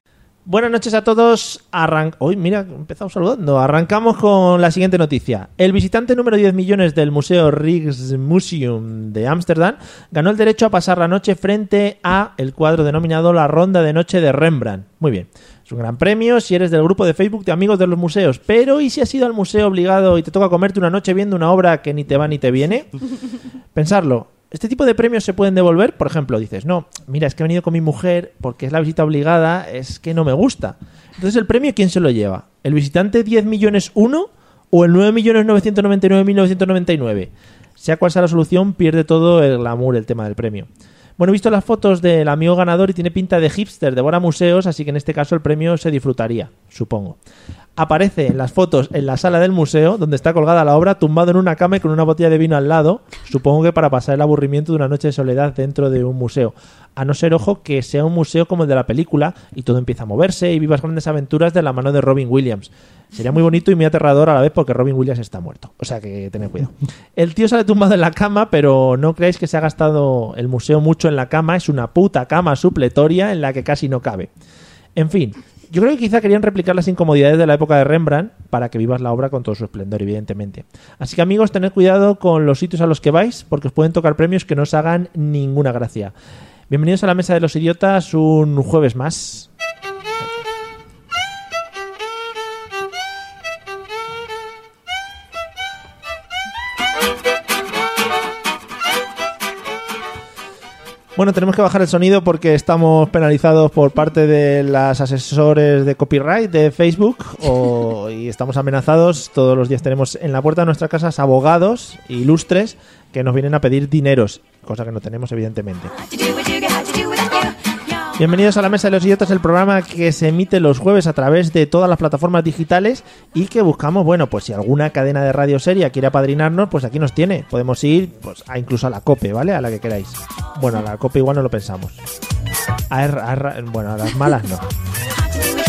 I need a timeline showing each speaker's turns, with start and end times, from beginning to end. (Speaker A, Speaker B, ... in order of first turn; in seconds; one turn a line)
Speaker A: 0.5-22.9
Speaker A: 23.7-40.7
Speaker A: 41.2-47.2
Speaker A: 47.8-74.3
Speaker A: 75.0-86.1
Speaker A: 86.7-89.5
Speaker A: 101.2-115.9
Speaker A: 118.2-132.0
Speaker A: 132.9-134.7